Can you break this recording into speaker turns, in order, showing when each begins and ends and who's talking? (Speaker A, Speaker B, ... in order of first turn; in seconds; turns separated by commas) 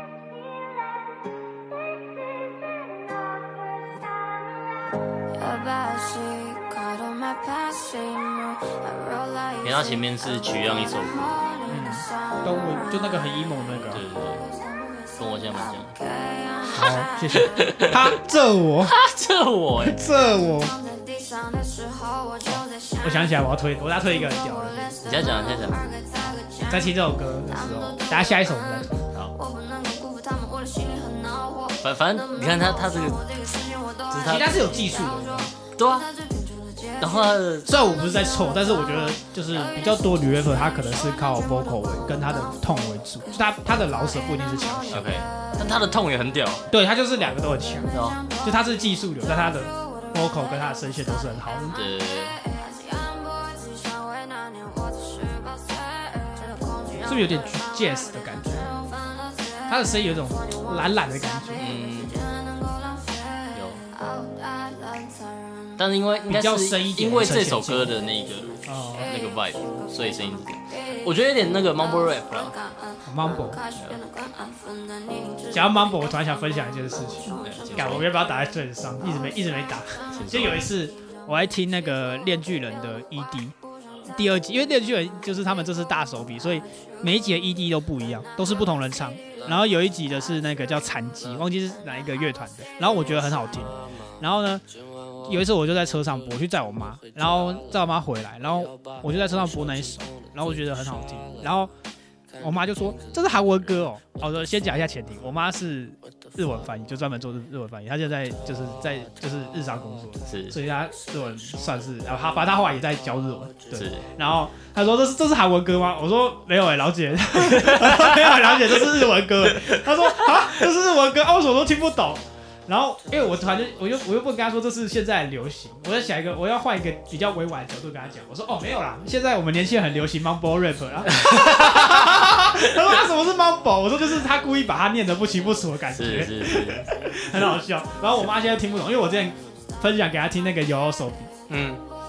Speaker A: 5.4-18.1, Speaker B: 9.6-11.5, Speaker C: 11.7-14.0, Speaker B: 13.9-14.4, Speaker B: 15.2-15.9, Speaker C: 16.7-18.9, Speaker B: 17.3-18.2, Speaker B: 18.8-20.0, Speaker C: 19.8-20.7, Speaker A: 20.0-45.9, Speaker C: 22.4-24.9, Speaker B: 25.0-25.9, Speaker C: 26.7-29.1, Speaker B: 31.8-33.2, Speaker B: 34.1-34.5, Speaker C: 34.2-35.5, Speaker B: 35.8-36.1, Speaker B: 37.0-37.7, Speaker C: 37.7-45.0, Speaker B: 44.9-46.7, Speaker C: 46.7-47.9, Speaker A: 47.6-65.8, Speaker B: 47.9-48.2, Speaker C: 48.4-51.8, Speaker B: 51.7-52.4, Speaker C: 57.0-58.7, Speaker C: 59.7-61.6, Speaker B: 61.5-62.2, Speaker B: 63.5-63.8, Speaker B: 65.8-72.5, Speaker C: 66.3-67.9, Speaker C: 68.7-69.1, Speaker A: 68.7-78.4, Speaker C: 73.0-73.6, Speaker B: 73.8-74.0, Speaker C: 75.5-94.6, Speaker B: 77.4-78.1, Speaker A: 79.0-80.8, Speaker B: 80.1-80.7, Speaker A: 82.0-82.3, Speaker A: 83.2-84.5, Speaker A: 86.8-87.2, Speaker A: 88.3-89.4, Speaker C: 95.2-101.7, Speaker C: 102.4-141.3, Speaker B: 110.3-110.5, Speaker B: 113.7-114.1, Speaker B: 117.3-118.7, Speaker B: 119.5-119.8, Speaker B: 131.1-132.6, Speaker B: 135.9-137.0, Speaker B: 141.5-141.8